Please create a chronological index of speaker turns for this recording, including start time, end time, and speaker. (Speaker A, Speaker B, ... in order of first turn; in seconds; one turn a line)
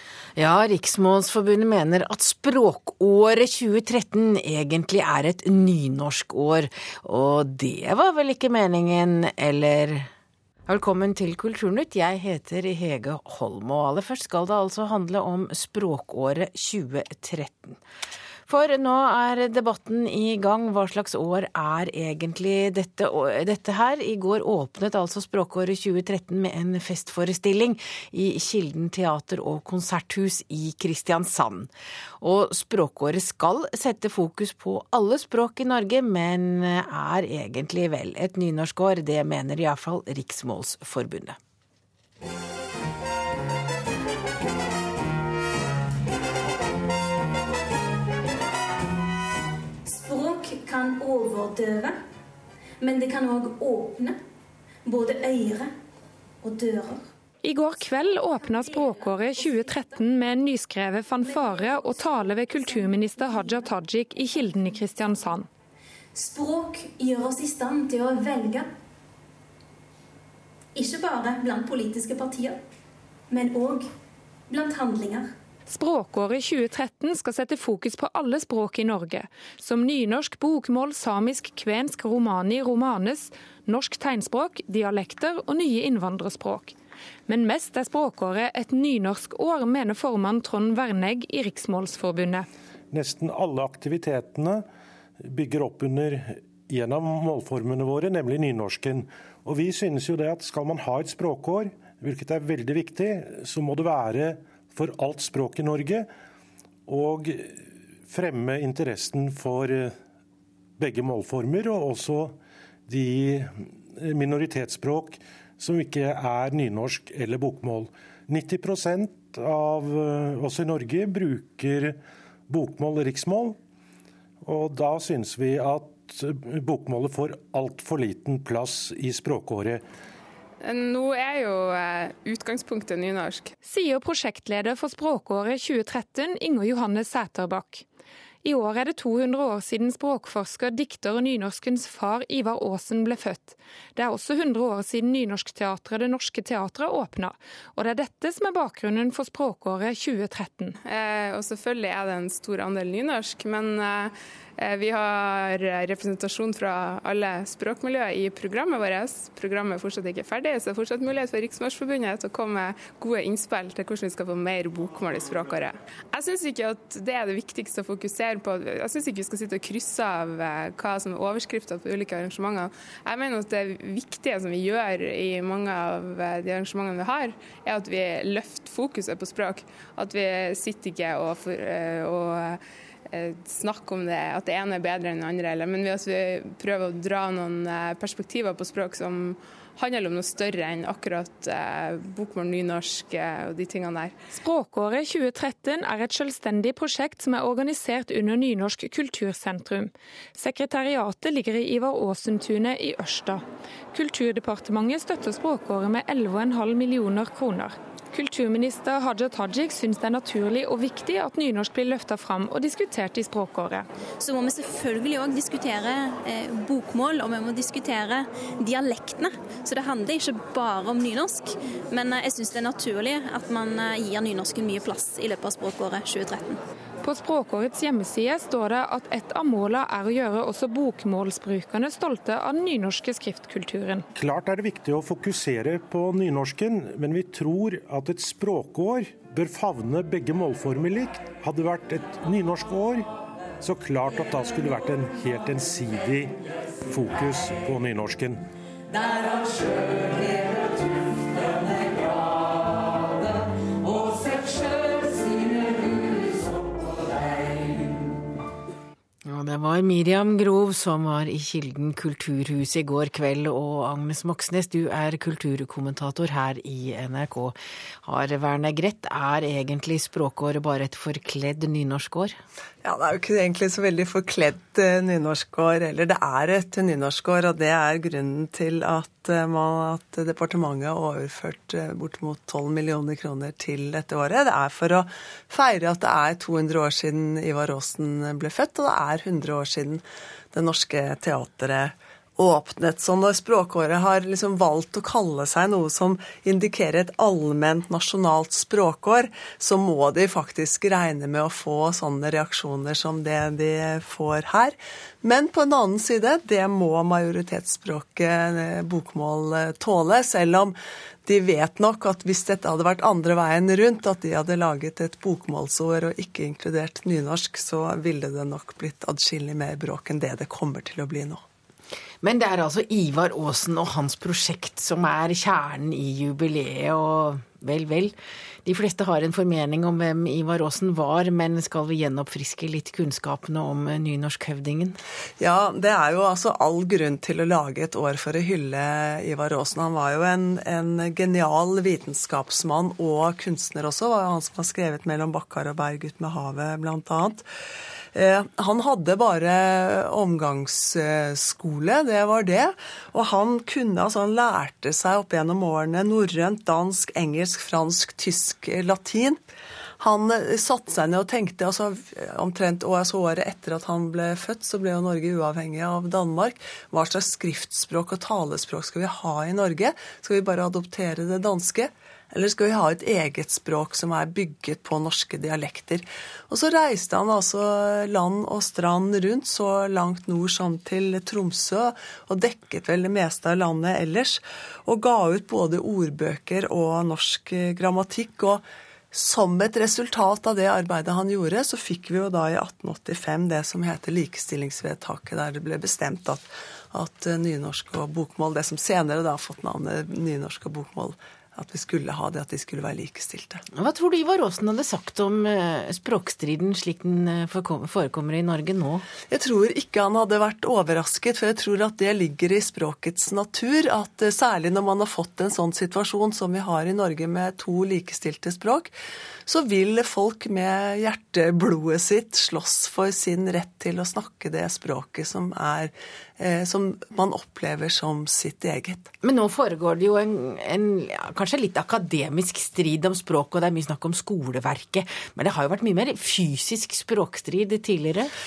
Speaker A: 0.3-10.1
Speaker A: 10.7-17.8
Speaker A: 18.5-31.7
Speaker A: 32.2-41.4
Speaker B: 49.9-51.9
Speaker B: 52.8-53.5
Speaker C: 52.8-54.1
Speaker C: 54.9-55.5
Speaker B: 54.9-55.6
Speaker B: 56.4-57.0
Speaker D: 57.4-65.5
Speaker B: 58.0-60.0
Speaker B: 61.4-63.4
Speaker B: 66.2-68.6
Speaker C: 66.9-68.4
Speaker C: 70.8-72.4
Speaker B: 70.8-72.5
Speaker C: 73.3-73.8
Speaker C: 74.5-75.2
Speaker B: 74.6-75.1
Speaker D: 75.7-86.7
Speaker D: 87.3-92.5
Speaker E: 92.9-94.7
Speaker E: 95.2-106.1
Speaker E: 106.9-110.0
Speaker E: 110.8-122.0
Speaker E: 122.5-123.6
Speaker E: 124.4-129.8
Speaker F: 130.6-133.5
Speaker D: 133.6-137.8
Speaker D: 138.4-150.8
Speaker F: 150.8-182.6
Speaker F: 183.1-194.1
Speaker D: 194.3-213.8
Speaker B: 214.2-226.6
Speaker D: 227.0-234.1
Speaker E: 234.2-243.1
Speaker E: 243.6-246.3
Speaker E: 246.9-248.4
Speaker A: 259.2-272.4
Speaker G: 272.8-321.4
Speaker A: 322.2-335.0
Speaker G: 335.4-347.4
Speaker G: 348.1-359.4
Speaker G: 360.0-403.6
Speaker A: 403.8-409.1
Speaker G: 409.3-418.9
Speaker G: 419.4-429.1
Speaker A: 429.2-438.3